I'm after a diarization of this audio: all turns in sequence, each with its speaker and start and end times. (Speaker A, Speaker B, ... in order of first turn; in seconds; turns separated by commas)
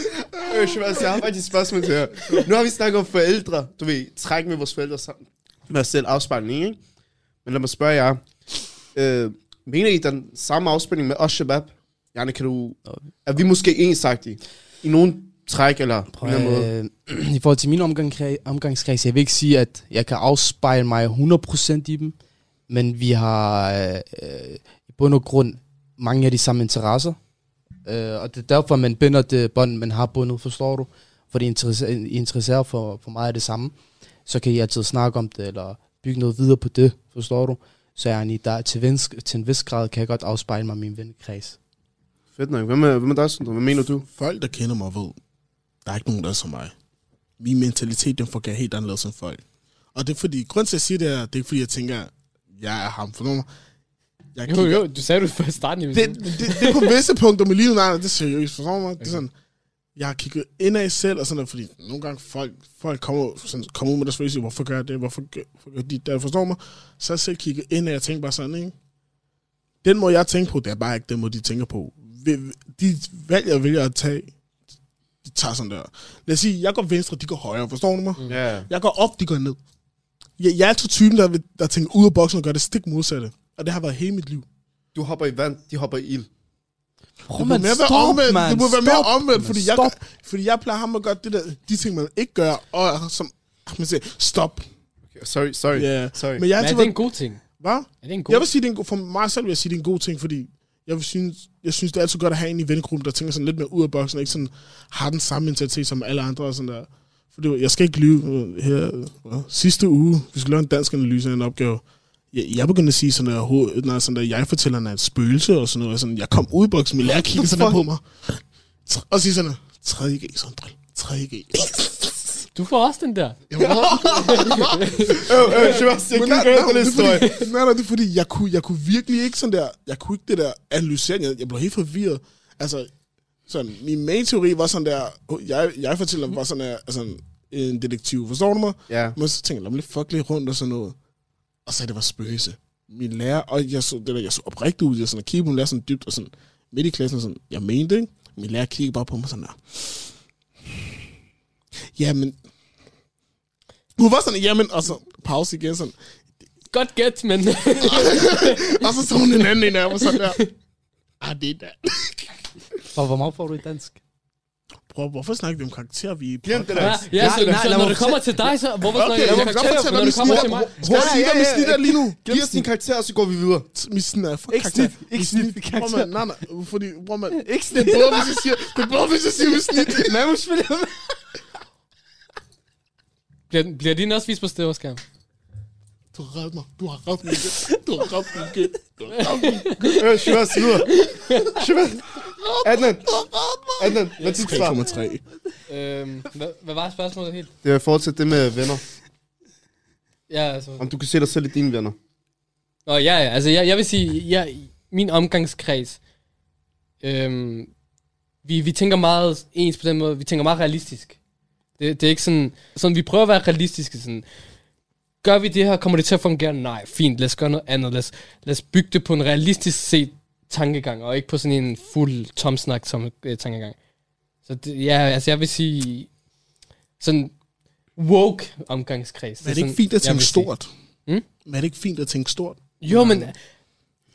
Speaker A: 0.3-6.8, Speaker A: 7.5-8.2, Speaker A: 8.9-16.7, Speaker B: 16.1-22.1, Speaker B: 22.7-27.2, Speaker B: 27.9-33.8, Speaker B: 34.3-41.6, Speaker A: 42.4-44.1, Speaker C: 44.1-45.2, Speaker C: 45.9-46.7, Speaker C: 47.4-49.4, Speaker C: 50.0-53.5, Speaker C: 54.4-54.9, Speaker D: 54.5-56.9, Speaker C: 55.9-59.3, Speaker C: 60.0-68.7, Speaker C: 69.8-74.3, Speaker C: 75.2-79.6, Speaker A: 78.3-78.7, Speaker C: 80.4-84.5, Speaker A: 85.0-86.3, Speaker B: 87.3-90.0, Speaker C: 87.3-94.7, Speaker A: 95.2-96.5, Speaker C: 95.7-97.0, Speaker D: 96.6-97.4, Speaker C: 97.6-122.1, Speaker D: 98.0-98.5, Speaker A: 117.1-117.8, Speaker D: 122.5-123.4, Speaker C: 123.5-132.9, Speaker A: 123.5-127.3, Speaker D: 124.1-125.2, Speaker C: 133.5-140.9, Speaker A: 138.9-139.2, Speaker C: 141.7-150.1, Speaker C: 152.0-152.4, Speaker C: 154.0-155.9, Speaker D: 156.7-158.8, Speaker C: 157.8-160.4, Speaker D: 160.1-160.5, Speaker C: 161.2-162.3, Speaker B: 162.9-164.0, Speaker C: 164.9-167.0, Speaker A: 166.4-167.9, Speaker D: 166.8-170.8, Speaker B: 167.1-168.3, Speaker C: 168.9-172.2, Speaker B: 169.3-172.7, Speaker A: 172.2-173.7, Speaker C: 173.7-180.2, Speaker B: 174.5-176.1, Speaker B: 177.3-178.9, Speaker B: 179.5-181.2, Speaker D: 183.5-185.0, Speaker C: 186.1-190.4, Speaker D: 189.1-190.0, Speaker A: 189.9-193.1, Speaker D: 190.8-191.6, Speaker A: 193.8-194.8, Speaker C: 194.0-195.2, Speaker D: 194.2-194.6, Speaker D: 195.7-197.5, Speaker A: 197.6-198.8, Speaker D: 200.3-200.8, Speaker A: 200.8-202.0, Speaker D: 202.9-206.0, Speaker D: 207.0-207.7, Speaker D: 208.4-211.2, Speaker D: 211.8-214.2, Speaker D: 215.2-223.8, Speaker D: 224.5-226.1, Speaker D: 227.0-227.3, Speaker D: 228.0-230.5, Speaker C: 229.4-230.7, Speaker C: 231.4-233.3, Speaker D: 232.8-233.4